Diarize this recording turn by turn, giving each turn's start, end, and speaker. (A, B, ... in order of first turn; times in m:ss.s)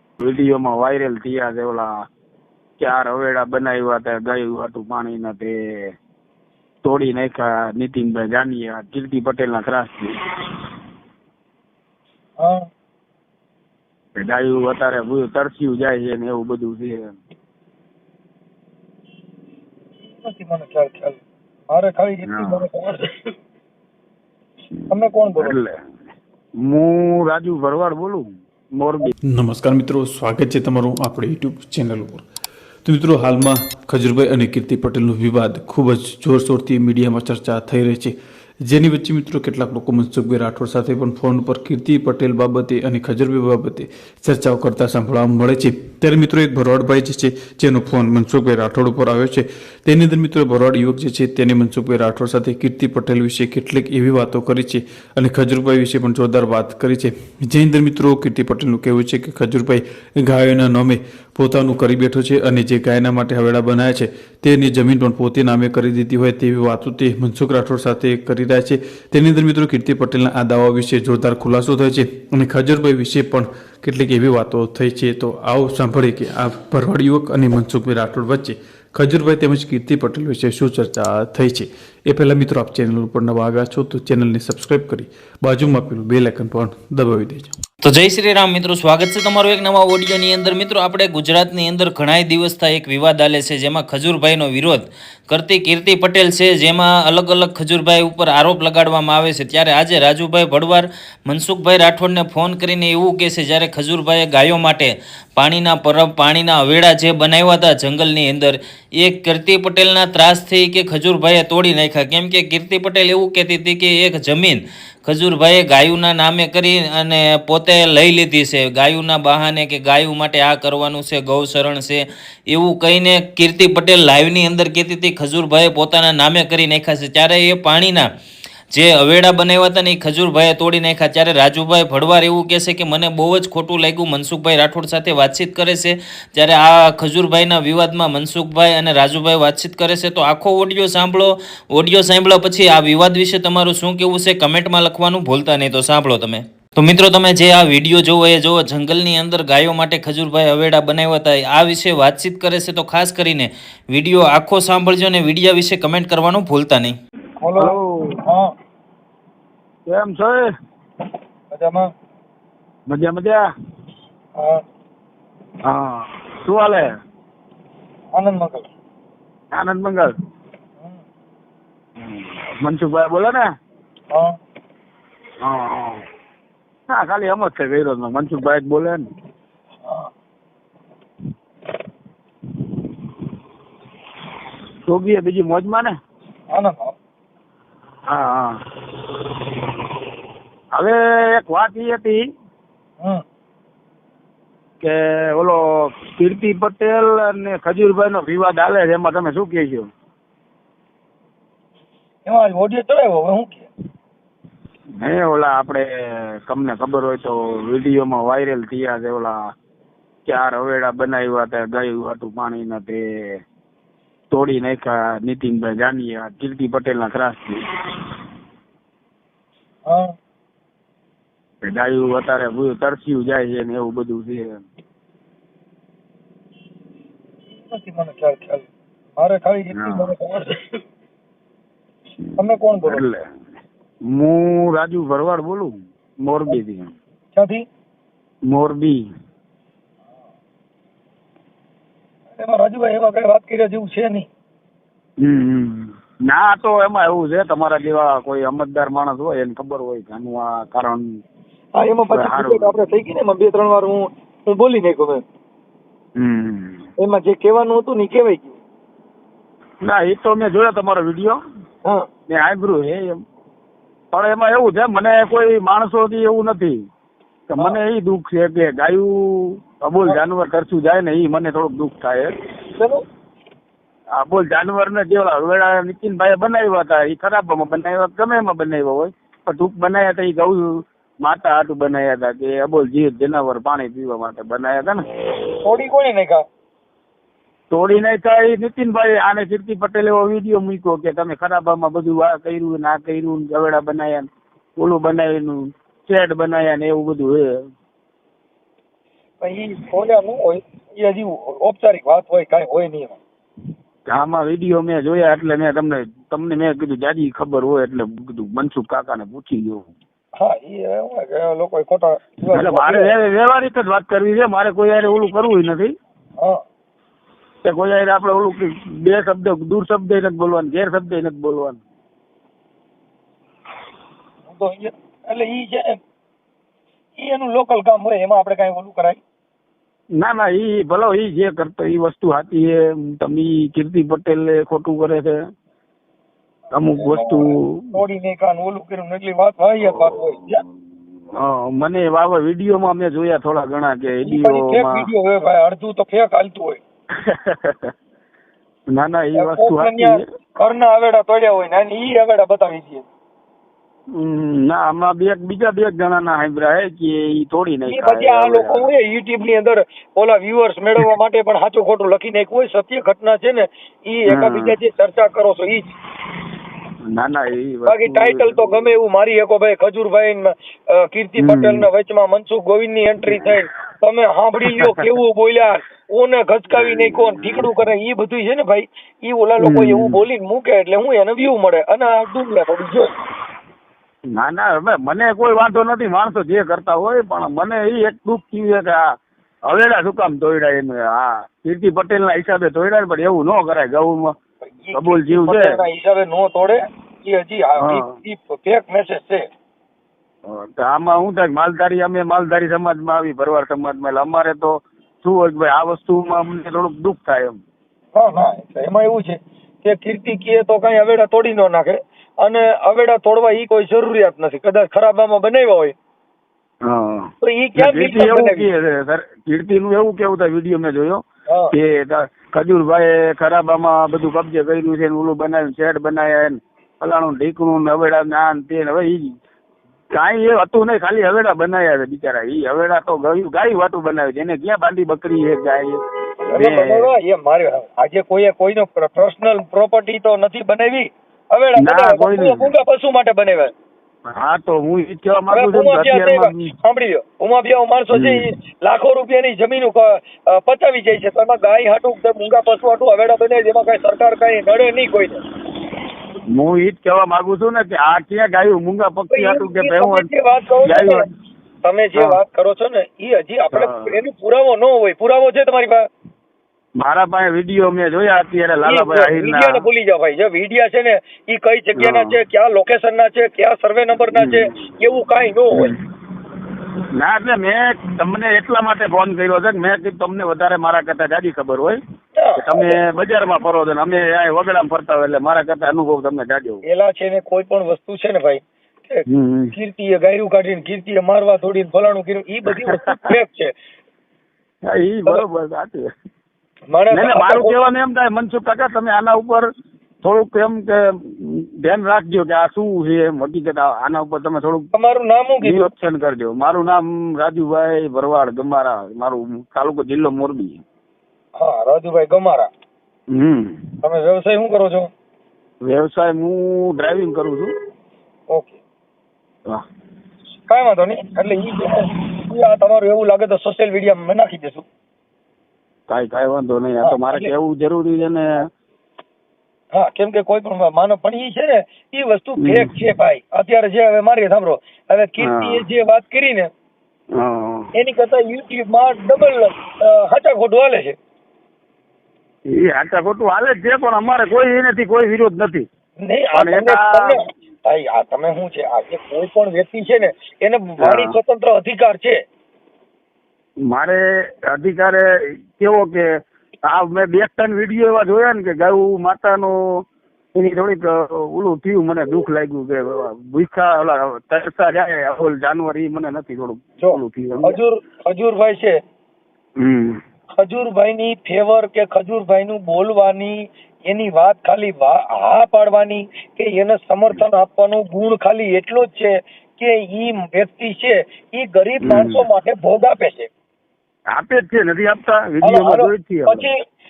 0:00.2-0:02.0 A
0:02.8-0:05.9 A
0:06.8-0:10.1 A
0:12.4-0:12.7 B
0:14.2-0:17.1 A
0:20.0-0:23.4 B
0:22.3-0:22.6 A
0:24.7-0:25.8 A
0:24.9-0:25.6 B
0:26.6-0:28.2 A
0:28.8-0:29.1 A
0:29.2-0:32.2 C
0:32.8-0:38.1 C
0:38.7-1:27.6 C
1:27.8-2:08.1 D
2:08.7-2:37.0 D
2:37.4-2:38.5 B
2:37.6-2:38.2 A
2:39.9-2:40.5 A
2:41.5-2:41.9 B
2:42.9-2:43.4 A
2:44.4-2:44.6 B
2:45.7-2:46.8 A
2:48.1-2:48.7 B
2:49.5-2:50.1 A
2:52.0-2:53.4 A
2:55.4-2:56.0 A
2:56.9-2:59.1 A
3:04.9-3:06.0 A
3:06.5-3:06.9 B
3:08.1-3:08.6 A
3:10.8-3:12.2 A
3:14.8-3:19.9 A
3:22.3-3:23.7 B
3:25.0-3:25.9 A
3:26.5-3:29.4 A
3:30.2-3:33.0 A
3:34.3-3:37.6 A
3:39.9-3:40.1 B
3:41.6-3:44.6 A
3:47.6-3:50.8 B
3:49.7-3:50.1 A
3:52.2-3:53.2 A
3:52.4-3:53.0 B
3:54.1-3:56.9 A
3:57.3-3:57.7 B
3:58.5-3:59.0 A
4:02.4-4:04.3 B
4:05.2-4:11.1 A
4:11.8-4:15.2 B
4:12.1-4:12.8 A
4:16.2-4:16.9 A
4:17.0-4:18.6 B
4:19.8-4:21.4 A
4:22.3-4:23.2 A
4:24.1-4:26.8 A
4:27.5-4:32.3 A
4:32.8-4:33.0 B
4:34.2-4:45.0 A
4:45.6-4:46.4 B
4:47.7-4:57.4 A
4:59.4-5:03.2 B
5:04.1-5:09.9 A
5:10.4-5:13.1 B
5:12.5-5:15.9 A
5:17.6-5:21.8 A
5:24.5-5:26.0 B
5:27.2-5:29.2 B
5:30.2-5:35.4 A
5:36.7-5:37.9 A
5:36.8-5:40.6 B
5:39.8-5:40.6 A
5:41.3-5:45.1 A
5:44.2-5:46.8 B
5:47.2-5:47.9 A
5:48.9-5:50.2 A
5:49.4-5:53.1 B
5:54.1-5:58.9 A
5:57.9-6:05.9 B
6:04.3-6:04.8 A
6:07.1-6:08.9 A
6:07.9-6:23.2 B
6:11.4-6:11.9 A
6:14.7-6:15.0 A
6:16.7-6:17.6 A
6:19.6-6:20.2 A
6:24.3-6:29.0 A
6:29.7-6:34.3 A
6:34.6-6:39.4 B
6:34.9-6:35.7 A
6:37.8-6:38.2 A
6:40.5-6:47.6 A
6:48.1-6:55.9 B
6:56.8-7:09.3 A
6:57.4-6:58.7 B
7:10.2-7:16.0 A
7:16.5-7:23.7 B
7:16.5-7:17.1 A
7:21.8-7:22.7 A
7:24.3-7:26.7 A
7:25.5-7:35.4 B
7:28.1-7:28.4 A
7:36.5-7:40.3 A
7:39.3-7:41.3 B
7:40.8-7:41.2 A
7:41.8-7:46.1 B
7:42.1-7:42.4 A
7:43.7-7:44.1 A
7:47.0-7:49.8 A
7:48.8-7:55.9 B
7:52.0-7:52.4 A
7:54.3-7:54.6 A
7:57.2-8:02.0 A
8:02.4-8:03.0 B
8:02.6-8:06.8 A
8:06.9-8:13.7 B
8:09.3-8:09.7 A
8:12.9-8:13.3 A
8:14.9-8:16.1 A
8:16.9-8:17.8 B
8:17.1-8:19.7 A
8:20.2-8:24.9 A
8:24.9-8:25.9 B
8:25.6-8:30.8 A
8:31.6-8:32.7 B
8:33.3-8:33.8 A
8:34.0-8:35.1 B
8:35.8-8:37.7 A
8:38.5-8:38.8 B
8:40.7-8:44.9 B
8:46.1-8:48.7 A
8:47.0-8:47.5 B
8:49.9-8:56.7 B
8:52.6-8:52.9 A
8:55.4-8:55.8 A
8:57.4-8:57.9 A
8:58.0-9:01.2 B
9:02.7-9:05.9 A
9:06.2-9:12.4 B
9:06.6-9:07.4 A
9:11.0-9:11.4 A
9:13.9-9:16.3 A
9:16.9-9:20.0 A
9:20.6-9:27.8 A
9:27.0-9:29.0 B
9:29.8-9:30.2 A
9:30.6-9:43.5 B
9:42.0-9:42.4 A
9:44.3-9:46.7 A
9:45.6-9:46.7 B